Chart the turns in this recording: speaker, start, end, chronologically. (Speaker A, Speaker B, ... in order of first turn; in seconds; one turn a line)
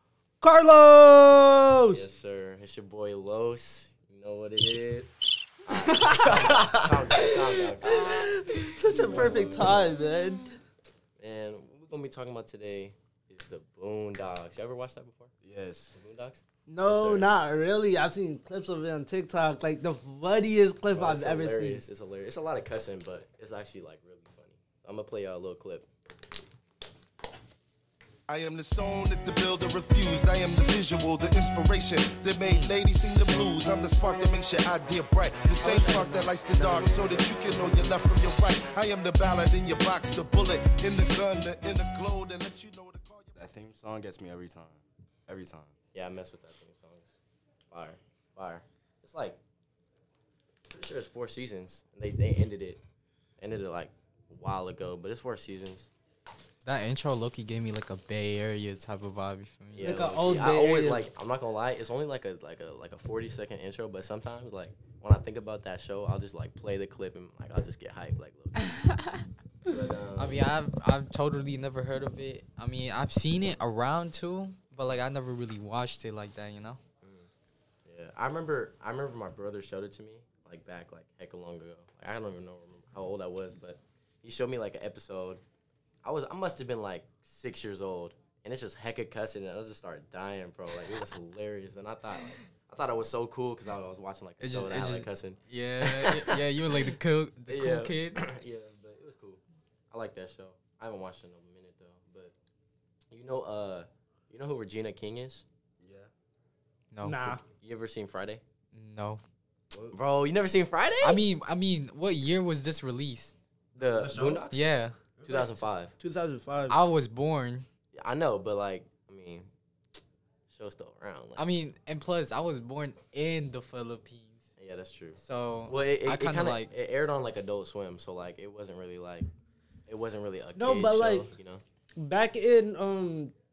Speaker A: 0.4-2.0
Speaker B: 1.9-5.1
Speaker B: 5.7-8.3
Speaker C: 6.2-7.1
Speaker A: 7.9-10.5
Speaker B: 8.9-9.8
Speaker B: 11.2-15.3
Speaker C: 15.4-15.9
Speaker B: 15.9-17.3
Speaker A: 16.7-21.8
Speaker B: 20.9-25.9
Speaker D: 28.3-43.3
Speaker E: 32.4-32.8
Speaker A: 35.6-36.2
Speaker C: 43.4-45.7
Speaker B: 45.9-47.2
Speaker B: 47.7-49.4
Speaker B: 50.7-52.8
Speaker B: 53.4-55.9
Speaker E: 56.6-59.9
Speaker B: 59.8-68.8
Speaker A: 59.8-61.0
Speaker B: 69.7-70.5
Speaker E: 70.2-76.8
Speaker B: 77.0-77.3
Speaker B: 77.8-85.4
Speaker B: 86.0-97.0
Speaker E: 94.4-98.2
Speaker B: 97.5-102.0
Speaker C: 102.1-102.3
Speaker B: 103.1-105.4
Speaker C: 105.8-106.1
Speaker E: 106.9-107.4
Speaker A: 107.0-107.4
Speaker B: 107.6-108.4
Speaker E: 108.7-109.2
Speaker B: 109.9-111.2
Speaker E: 111.0-113.3
Speaker B: 113.8-114.7
Speaker C: 113.8-114.5
Speaker E: 114.5-115.0
Speaker C: 115.2-115.7
Speaker B: 115.2-115.9
Speaker A: 116.0-116.8
Speaker E: 116.7-117.7
Speaker B: 118.0-119.5
Speaker B: 120.5-121.5
Speaker E: 121.4-124.5
Speaker B: 124.6-129.3
Speaker E: 125.2-126.7
Speaker B: 129.9-131.6
Speaker A: 130.6-131.3
Speaker A: 132.0-133.3